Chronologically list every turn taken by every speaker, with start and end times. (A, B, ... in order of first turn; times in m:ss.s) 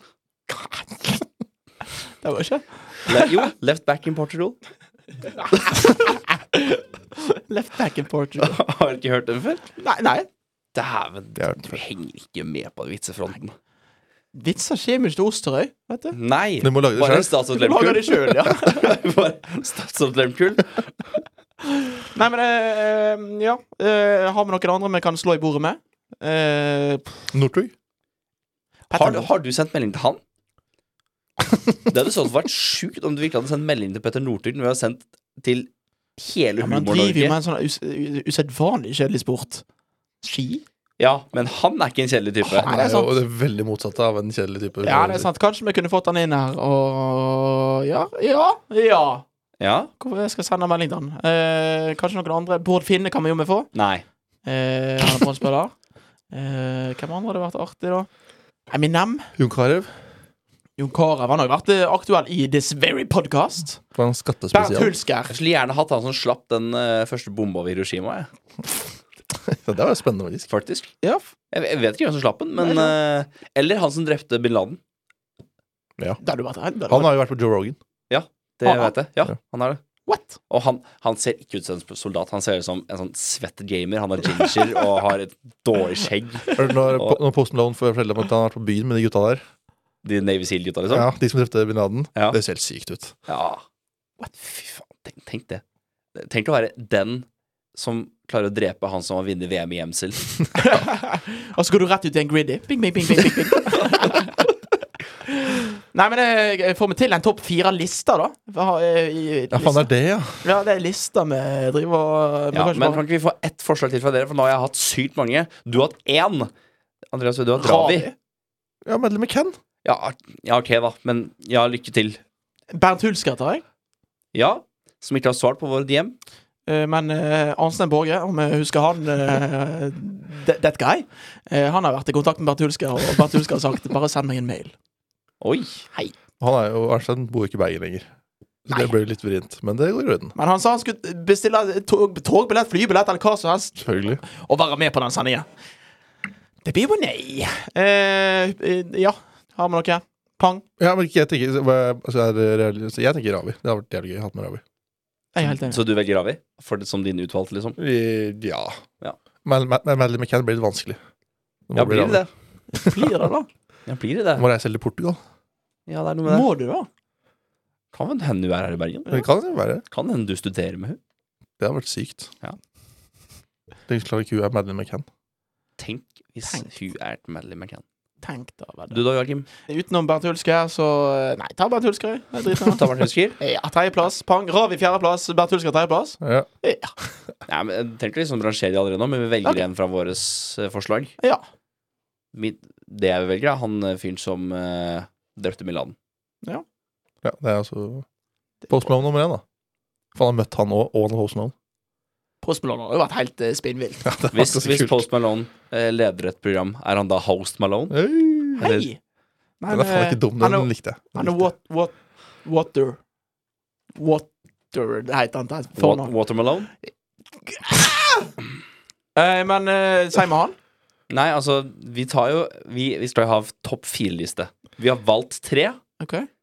0:02.2-0:03.3 A
0:03.0-0:04.6 B
0:05.4-0:08.6 A
0:08.4-0:09.7 B
0:09.8-0:10.3 A
0:10.7-0:13.5 B
0:11.4-0:11.8 C
0:14.3-0:16.2 A
0:16.1-0:20.9 B
0:16.6-0:17.3 C
0:17.5-0:18.9 A
0:22.0-0:27.1 A
0:27.3-0:27.7 C
0:28.9-0:29.3 A
0:28.9-0:30.2 B
0:31.9-0:37.3 B
0:36.6-0:39.6 A
0:40.2-0:40.6 A
0:41.0-0:42.7 B
0:42.4-0:43.1 A
0:42.6-0:45.2 C
0:44.8-0:49.2 A
0:49.6-0:49.9 B
0:50.0-0:53.7 A
0:53.7-0:54.0 B
0:54.4-0:55.7 A
0:56.3-0:58.1 A
0:58.7-0:59.3 A
0:59.4-0:59.9 C
1:00.8-1:03.8 A
1:03.9-1:04.9 C
1:04.5-1:05.3 A
1:05.3-1:08.3 B
1:09.3-1:10.5 C
1:10.5-1:10.9 B
1:11.5-1:14.8 B
1:12.6-1:12.9 A
1:16.2-1:17.1 A
1:16.9-1:17.8 C
1:18.1-1:19.8 B
1:18.6-1:18.9 A
1:20.0-1:20.4 A
1:20.5-1:27.2 B
1:26.6-1:29.4 C
1:30.0-1:31.1 B
1:30.9-1:33.1 C
1:33.3-1:33.6 B
1:34.2-1:35.6 B
1:36.1-1:40.3 B
1:40.6-1:44.4 A
1:45.2-1:49.9 A
1:49.5-1:50.4 C
1:50.4-1:53.0 A
1:52.5-1:56.5 B
1:57.1-1:58.1 B
1:57.6-1:58.1 A
1:58.8-1:59.6 C
1:59.8-2:02.2 B
2:02.7-2:03.6 A
2:04.3-2:06.1 B
2:06.7-2:14.7 A
2:15.4-2:15.8 B
2:16.4-2:18.0 C
2:18.6-2:20.3 C
2:20.3-2:25.4 A
2:23.8-2:24.2 C
2:26.6-2:30.6 A
2:30.8-2:34.6 C
2:35.3-2:35.8 A
2:35.6-2:37.8 B
2:37.8-2:38.8 C
2:39.4-2:41.0 C
2:41.7-2:42.2 C
2:41.7-2:42.3 B
2:42.7-2:43.5 A
2:42.8-2:43.1 C
2:43.9-2:44.4 B
2:44.4-2:45.2 C
2:45.9-2:46.5 B
2:46.3-2:46.9 A
2:47.9-2:49.2 B
2:49.1-2:49.8 C
2:49.9-2:51.0 B
2:51.6-2:52.3 C
2:53.9-2:55.0 C
2:55.8-2:57.8 B
2:56.4-2:56.7 A
2:58.2-2:59.0 A
2:58.9-2:59.5 B
2:59.6-3:02.8 A
3:02.6-3:03.4 B
3:03.4-3:06.9 A
3:06.2-3:06.5 C
3:07.5-3:11.1 B
3:12.3-3:15.9 B
3:17.2-3:18.0 C
3:18.7-3:19.4 C
3:20.1-3:21.5 C
3:22.4-3:24.0 A
3:24.0-3:25.0 C
3:24.3-3:28.9 B
3:27.9-3:28.7 C
3:28.6-3:29.0 A
3:29.6-3:33.0 A
3:29.7-3:31.5 C
3:34.0-3:36.1 A
3:35.8-3:36.7 B
3:37.5-3:38.3 A
3:39.2-3:40.5 A
3:41.1-3:45.8 B
3:46.0-3:46.3 A